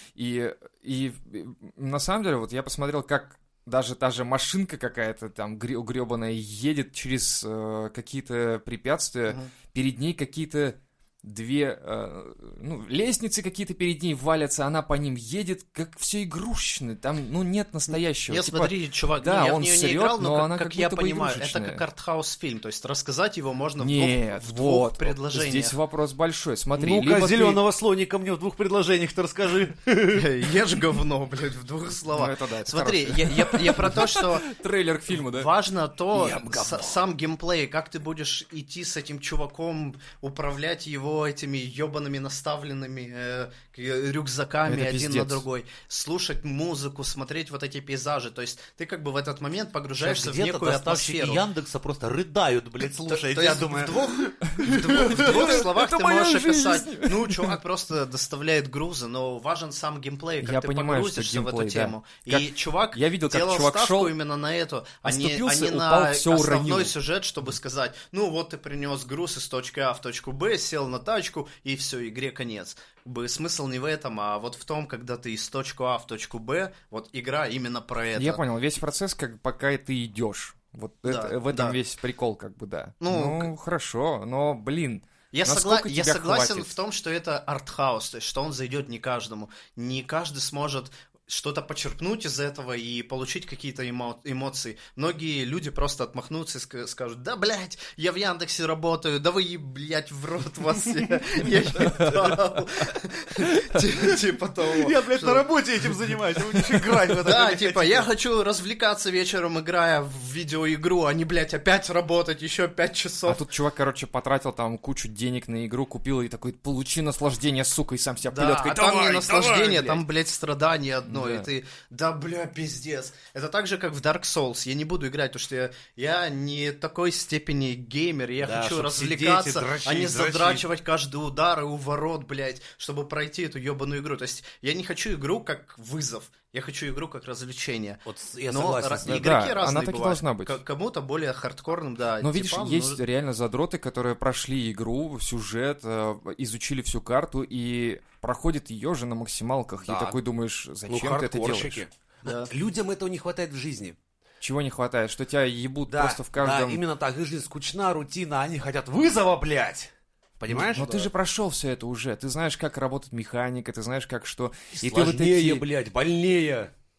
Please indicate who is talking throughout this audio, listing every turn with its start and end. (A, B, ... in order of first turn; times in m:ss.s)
0:00.2-0:21.8 A
0:09.3-0:09.5 B
0:18.3-0:25.8 B
0:23.8-0:27.6 A
0:26.8-0:30.3 C
0:30.1-0:34.5 B
0:32.1-0:35.5 A
0:35.1-0:51.4 B
0:36.1-0:37.0 C
0:44.6-0:45.4 A
0:50.0-0:55.6 C
0:53.0-1:18.4 B
0:54.5-0:57.6 A
1:00.4-1:04.1 A
1:05.0-1:06.9 A
1:18.2-1:26.7 A
1:21.0-1:21.8 B
1:23.0-1:23.5 B
1:25.3-1:45.5 B
1:44.7-1:48.1 C
1:47.2-1:53.4 B
1:53.2-1:59.8 A
1:58.3-2:23.0 B
1:58.9-1:59.7 C
2:01.1-2:01.4 A
2:08.4-2:10.6 C
2:18.0-2:19.2 C
2:19.0-2:20.5 A
2:22.2-2:31.8 A
2:29.8-2:30.2 C
2:30.9-2:34.0 C
2:32.2-2:32.5 B
2:34.4-2:36.8 A
2:35.9-2:41.1 C
2:40.5-2:45.6 A
2:44.7-2:46.7 C